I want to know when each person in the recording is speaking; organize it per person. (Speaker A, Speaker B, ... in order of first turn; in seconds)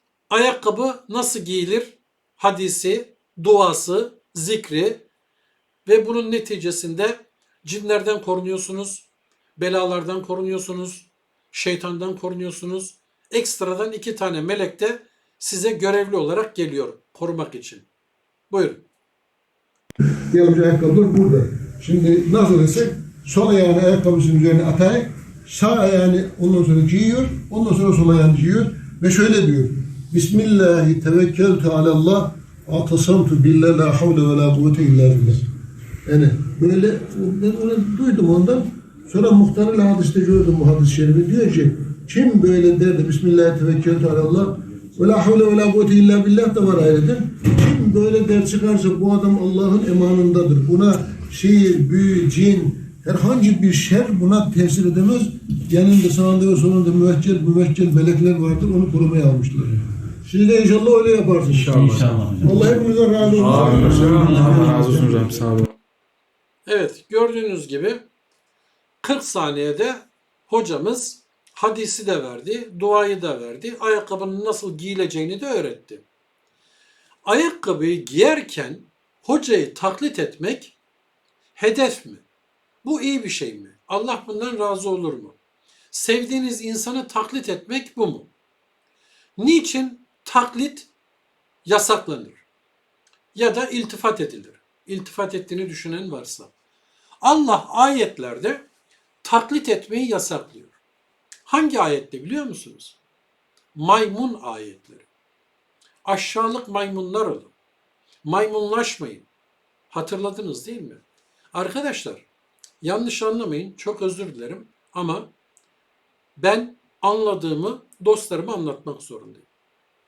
Speaker A: 0.3-5.0, 5.9-17.9, 18.5-18.8, 61.5-62.4, 63.5-64.7, 66.7-68.0, 69.0-76.0, 77.2-80.8, 81.6-82.2, 82.8-85.4, 85.9-88.3, 89.4-90.9, 91.7-92.4, 93.3-96.5, 97.2-98.6, 99.2-100.8, 101.5-103.0, 103.8-105.1, 106.0-107.5, 108.2-109.3, 109.9-112.3, 112.8-115.3, 116.4-119.5
Speaker B: 20.3-35.4, 36.1-61.8, 62.4-65.4
Speaker C: 61.5-65.7